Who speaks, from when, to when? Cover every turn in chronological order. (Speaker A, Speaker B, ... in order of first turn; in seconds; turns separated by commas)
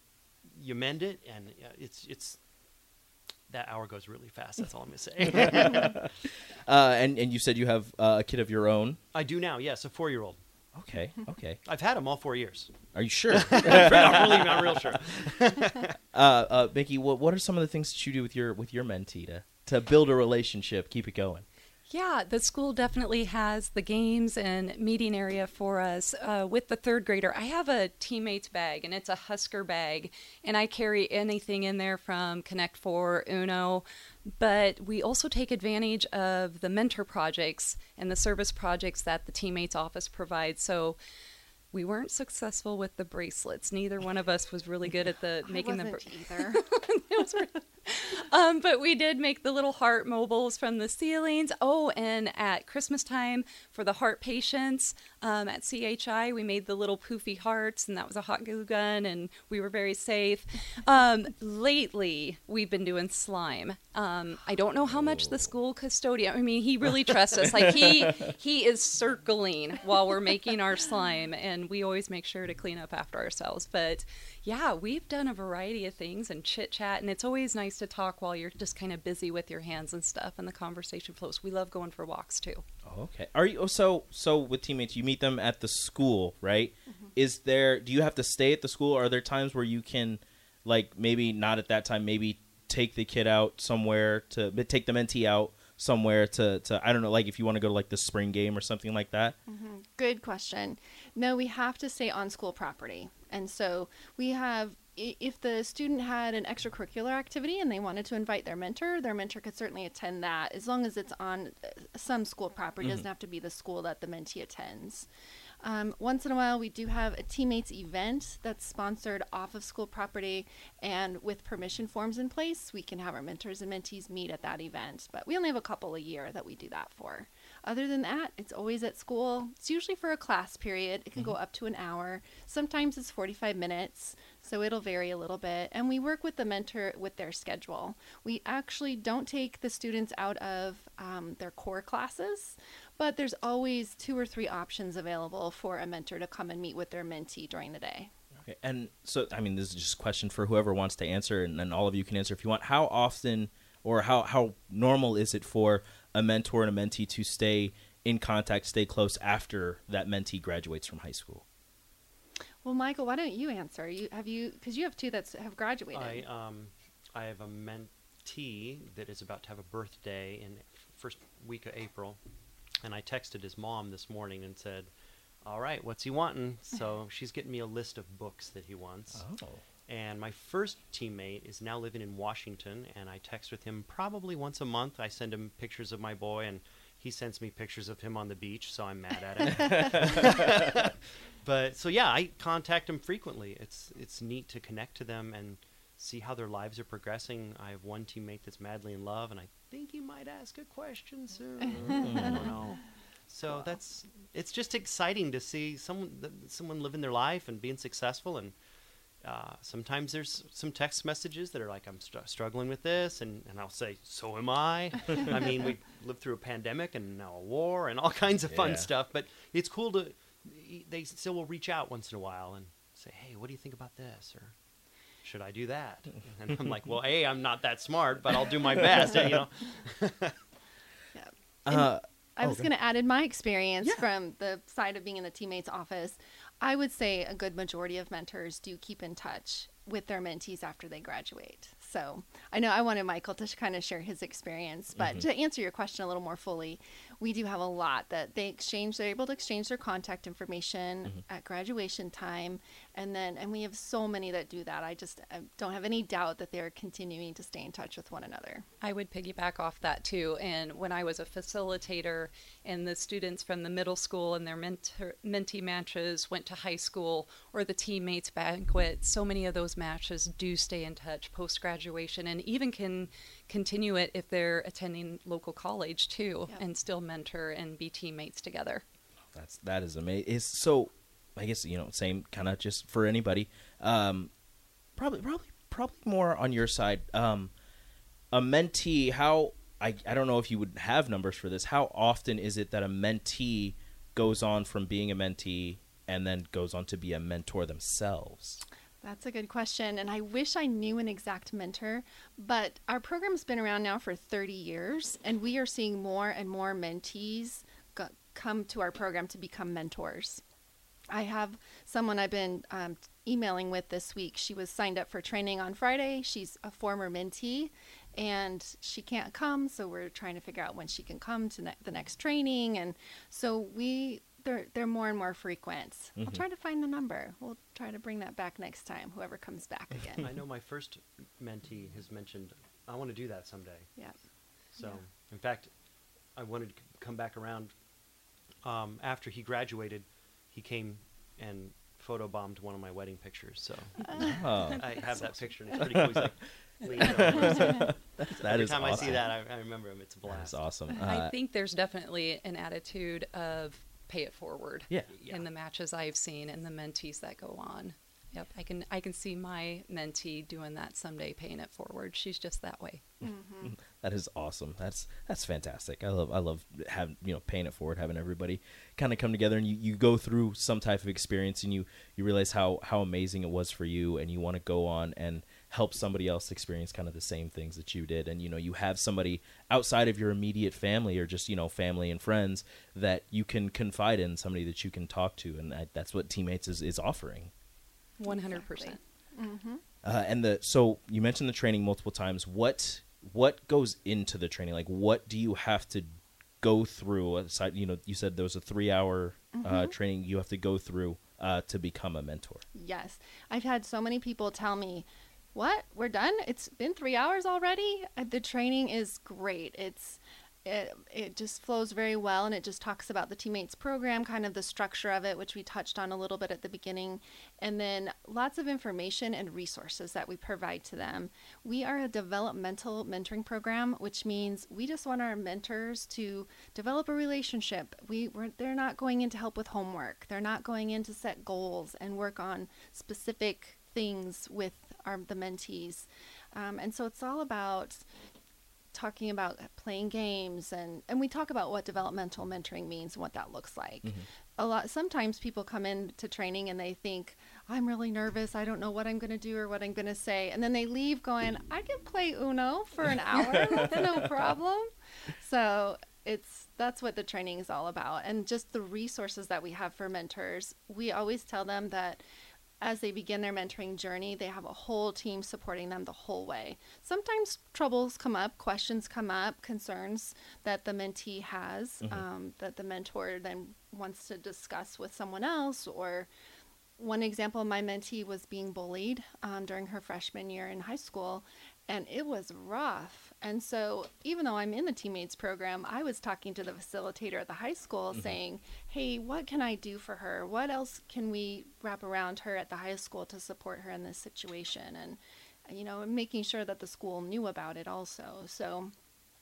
Speaker A: 0.5-2.4, Speaker A: 3.5-6.1, Speaker B: 5.4-6.1, Speaker B: 6.7-9.0, Speaker A: 9.1-10.4, Speaker B: 10.7-11.6, Speaker A: 11.7-15.9, Speaker B: 12.9-14.9, Speaker B: 16.1-21.5, Speaker C: 21.9-41.0, Speaker C: 41.7-82.6, Speaker D: 45.5-46.6, Speaker B: 64.9-65.5, Speaker B: 82.8-99.4, Speaker D: 99.5-115.1, Speaker D: 115.6-148.1, Speaker B: 148.4-161.4, Speaker D: 162.6-166.2, Speaker A: 165.9-172.2, Speaker A: 172.8-174.9, Speaker A: 175.4-179.2, Speaker B: 179.2-179.6, Speaker A: 179.9-202.8, Speaker B: 189.6-190.2, Speaker D: 201.6-202.8, Speaker B: 201.8-202.5, Speaker A: 203.3-208.6, Speaker A: 209.2-224.5, Speaker B: 218.5-218.9, Speaker A: 225.2-230.4, Speaker D: 231.1-258.7, Speaker B: 231.7-232.7, Speaker B: 244.9-245.2, Speaker C: 258.8-278.8, Speaker B: 279.3-284.3, Speaker B: 285.0-287.5, Speaker B: 288.3-298.6, Speaker D: 299.0-310.4, Speaker D: 311.1-330.2, Speaker B: 326.2-326.4, Speaker A: 330.2-333.9, Speaker A: 334.7-335.7, Speaker A: 336.4-337.7, Speaker A: 338.6-350.6, Speaker D: 344.1-344.4, Speaker B: 344.2-346.3, Speaker B: 347.0-349.3, Speaker B: 350.3-351.3, Speaker C: 351.0-363.0, Speaker A: 355.1-355.4, Speaker D: 363.2-363.8, Speaker B: 363.6-387.5, Speaker C: 388.2-389.0, Speaker D: 388.3-389.8, Speaker B: 390.0-402.6, Speaker D: 399.5-399.9, Speaker D: 402.8-438.0, Speaker D: 438.9-462.2, Speaker B: 453.4-454.4, Speaker D: 462.8-476.3, Speaker D: 477.0-498.9, Speaker B: 488.1-488.4